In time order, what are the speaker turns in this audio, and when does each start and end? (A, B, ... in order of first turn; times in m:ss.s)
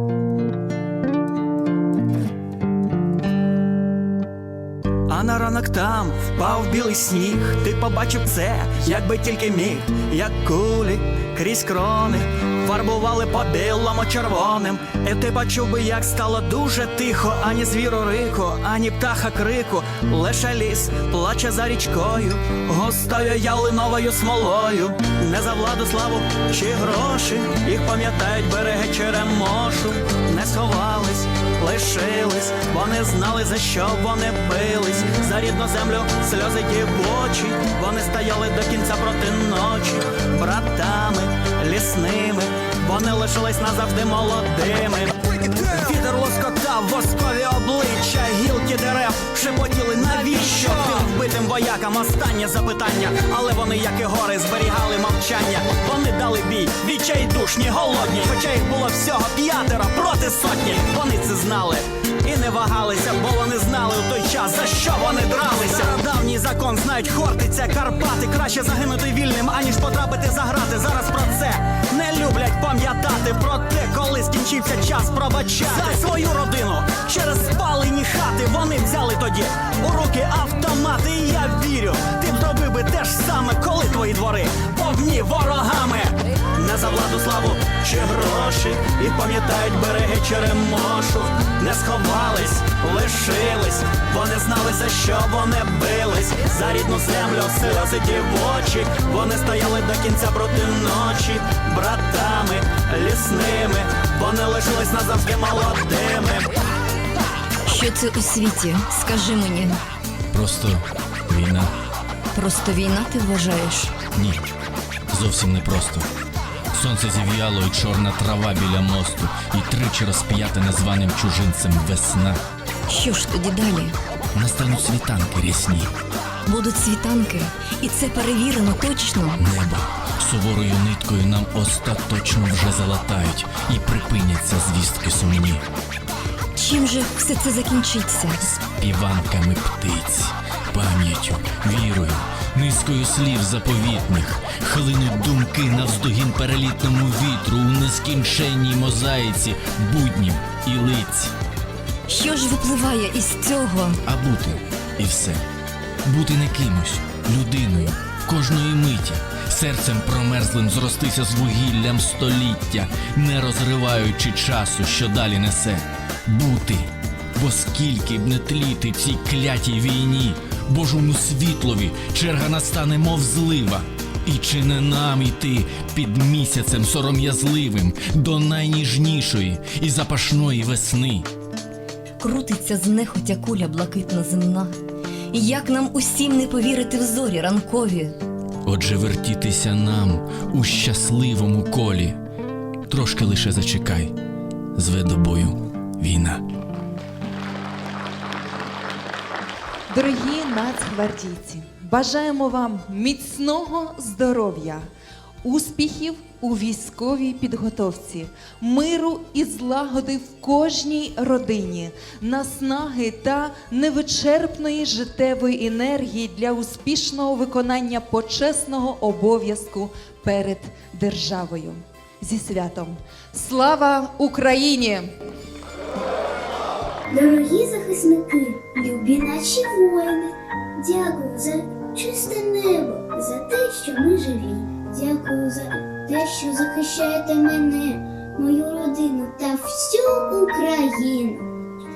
0:05.1-1:46.5 A
1:47.6-1:49.8 B
1:50.3-1:51.7 C
1:52.3-1:54.0 B
1:54.2-1:54.4 C
1:55.1-1:56.1 C
1:56.7-2:02.4 C
2:02.9-2:04.0 B
2:04.3-2:05.9 C
2:06.4-2:09.4 B
2:09.4-2:15.6 C
2:16.5-2:18.4 B
2:18.5-2:31.3 C
2:32.1-2:34.0 B
2:34.0-2:35.4 C
2:36.0-3:01.3 C
3:02.2-3:04.7 B
3:05.3-3:08.2 B
3:08.6-3:12.2 C
3:12.9-3:14.1 C
3:14.7-3:16.4 C
3:19.9-3:24.9 D
3:25.4-3:45.1 D
3:47.1-4:01.4 E